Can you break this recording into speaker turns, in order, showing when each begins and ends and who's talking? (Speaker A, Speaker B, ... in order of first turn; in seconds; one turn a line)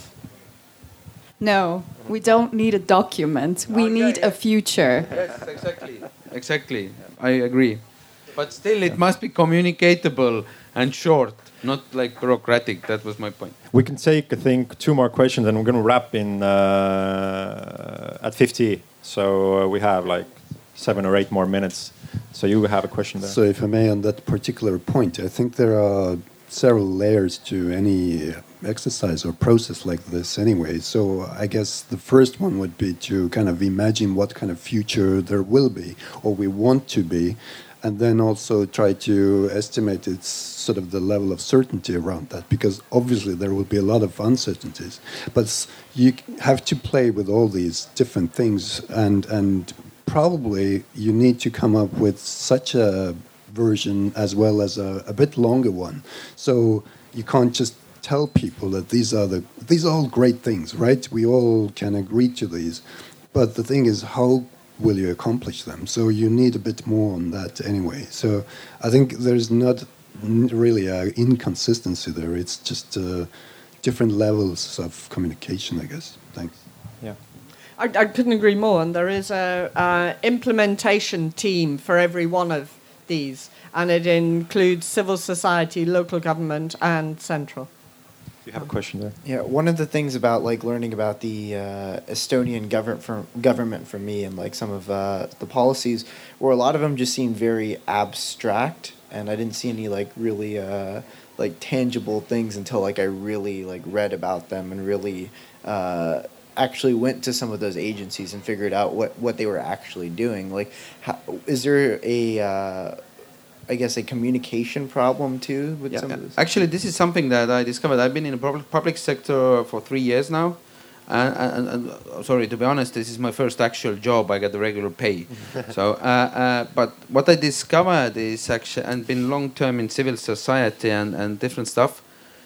Speaker A: 1.4-5.2
Speaker B: 3.7-4.3
Speaker B: 5.1-13.6
Speaker C: 13.7-23.4
Speaker D: 23.2-73.3
Speaker D: 73.8-76.6
Speaker E: 77.8-87.7
Speaker C: 88.5-89.2
Speaker F: 89.2-113.0
Speaker F: 113.7-116.4
Speaker B: 115.9-132.1